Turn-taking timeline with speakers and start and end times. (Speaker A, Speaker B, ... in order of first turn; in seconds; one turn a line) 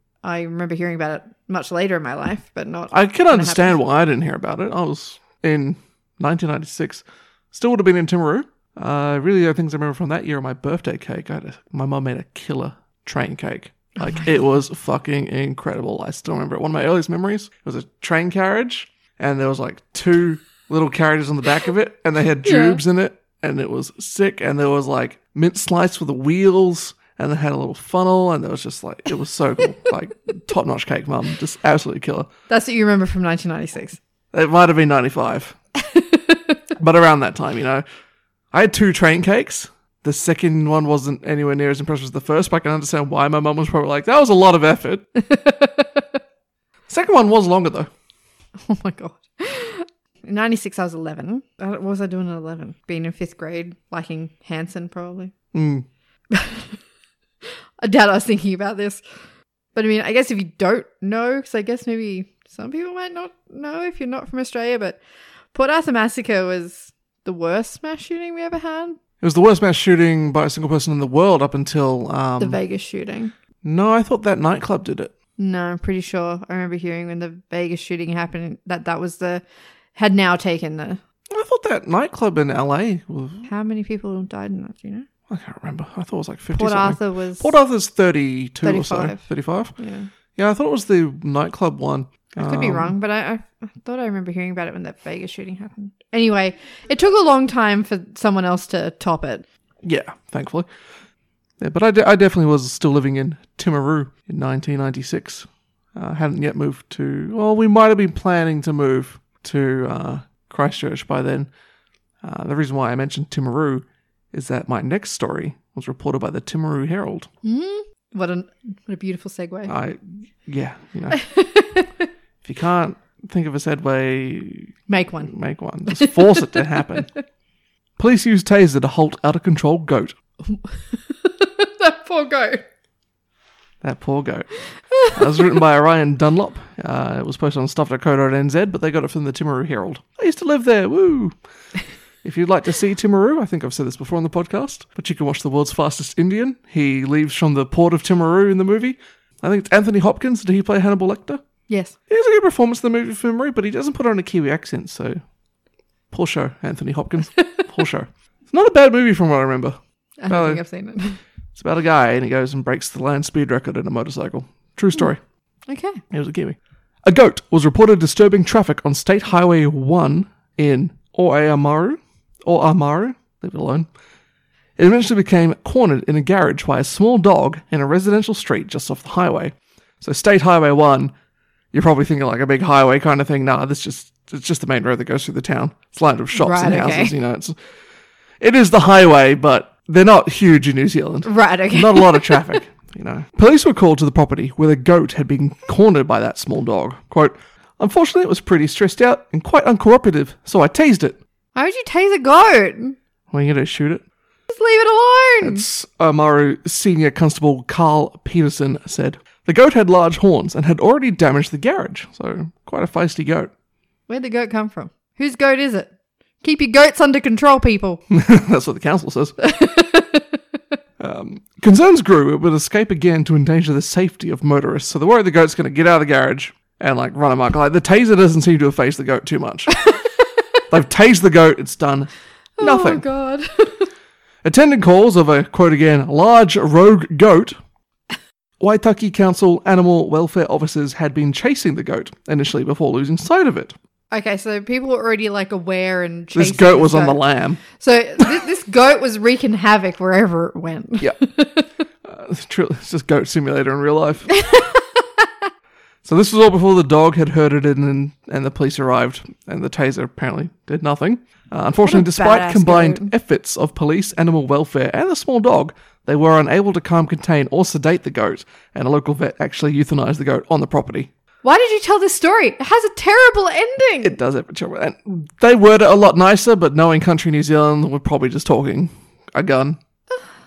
Speaker A: 0.2-3.8
Speaker B: 2.9-32.3
Speaker A: 22.4-22.8
Speaker A: 32.5-34.0
Speaker B: 34.3-35.6
Speaker A: 35.8-36.6
Speaker B: 36.8-37.8
Speaker B: 38.5-45.1
Speaker A: 45.2-46.0
Speaker B: 46.9-47.9
Speaker A: 48.7-55.3
Speaker B: 55.5-55.9
Speaker A: 56.3-56.8
Speaker A: 57.8-59.0
Speaker A: 59.7-65.0
Speaker A: 65.5-69.0
Speaker B: 69.2-72.6
Speaker A: 72.4-73.3
Speaker B: 73.6-75.1
Speaker A: 75.4-79.4
Speaker A: 80.0-81.0
Speaker B: 81.3-83.5
Speaker A: 83.5-85.1
Speaker B: 85.3-89.7
Speaker A: 86.5-87.5
Speaker A: 88.6-89.2
Speaker A: 89.8-90.1
Speaker B: 90.4-92.9
Speaker A: 92.4-99.5
Speaker B: 99.8-100.7
Speaker B: 101.6-111.5
Speaker B: 112.2-117.3
Speaker A: 117.4-119.7
Speaker B: 119.7-121.2
Speaker A: 121.1-122.1
Speaker B: 122.4-124.7
Speaker A: 124.9-125.3
Speaker B: 125.3-127.1
Speaker A: 125.9-127.1
Speaker B: 128.0-130.1
Speaker A: 130.5-132.6
Speaker B: 133.8-134.5
Speaker A: 134.9-135.5
Speaker B: 135.1-141.4
Speaker B: 142.2-151.4
Speaker A: 151.7-152.0
Speaker B: 152.1-155.2
Speaker B: 156.1-159.8
Speaker A: 160.2-161.2
Speaker B: 160.3-160.6
Speaker B: 161.6-165.2
Speaker A: 165.7-166.0
Speaker B: 166.1-173.9
Speaker B: 174.8-181.1
Speaker B: 181.7-187.6
Speaker A: 186.3-187.1
Speaker B: 188.4-201.2
Speaker A: 191.2-192.6
Speaker A: 201.6-203.0
Speaker B: 203.3-204.1
Speaker A: 204.5-205.7
Speaker B: 205.4-213.5
Speaker A: 214.1-218.0
Speaker B: 218.1-219.4
Speaker A: 219.4-220.4
Speaker B: 221.0-229.8
Speaker A: 229.8-230.6
Speaker B: 230.7-233.1
Speaker A: 232.6-233.9
Speaker B: 234.4-237.6
Speaker B: 238.6-243.8
Speaker A: 244.1-251.7
Speaker B: 246.3-247.6
Speaker B: 252.0-254.3
Speaker A: 254.3-255.3
Speaker B: 256.0-271.1
Speaker A: 261.8-263.1
Speaker A: 271.4-274.2
Speaker B: 274.0-279.8